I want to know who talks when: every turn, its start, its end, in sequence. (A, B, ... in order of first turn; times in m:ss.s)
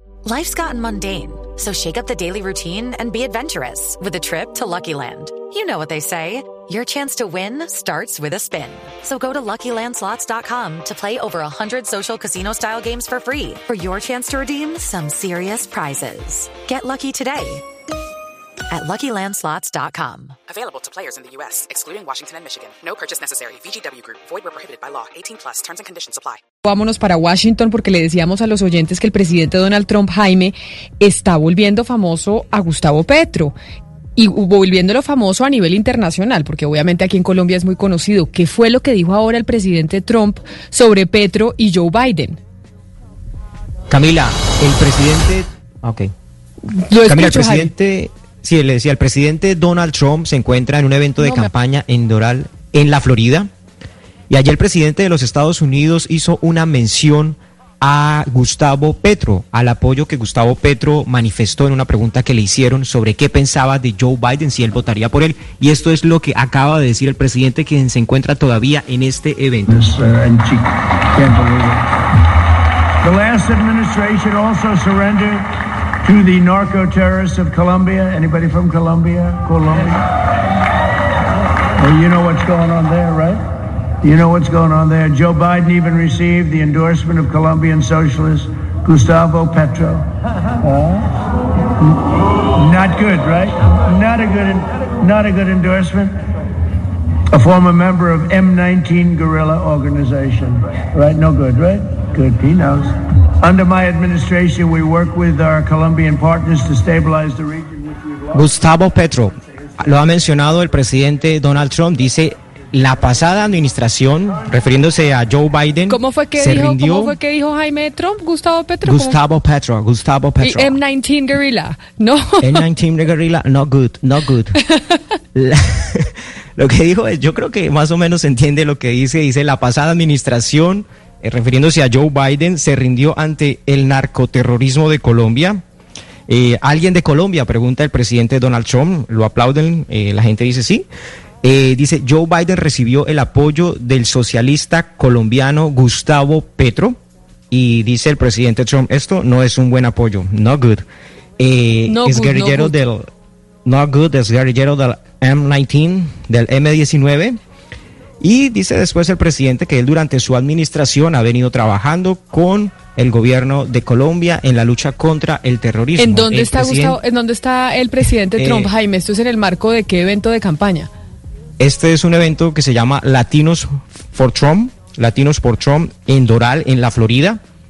0:00.2-0:17.6 A
0:18.7-0:20.4 A
0:20.5-0:26.4 B
0:26.6-0:33.6 C
0:34.2-0:42.4 C
0:43.9-0:46.1 D
0:46.7-0:47.7 C
0:47.0-0:53.5 D
0:51.2-0:51.5 C
0:54.3-1:09.8 D
1:09.7-1:11.8 E
1:13.0-1:15.4 E
1:16.0-1:20.0 E
1:21.8-1:23.4 E
1:24.0-1:30.0 E
1:30.6-1:31.1 E
1:32.6-1:36.1 E
1:37.3-1:42.9 E
1:43.4-1:48.3 E
1:48.3-1:57.2 D
1:55.9-1:59.2 C
1:58.8-2:00.8 D
2:00.4-2:02.6 C
2:02.4-2:04.6 D
2:05.3-2:15.6 D
2:16.3-2:20.8 D
2:21.4-2:27.0 D
2:27.5-2:30.8 D
2:31.4-2:33.0 D
2:31.9-2:32.7 C
2:33.6-2:37.4 D
2:38.2-2:47.0 D
2:46.0-2:50.9 C
2:48.4-2:48.7 D
2:51.6-2:57.4 D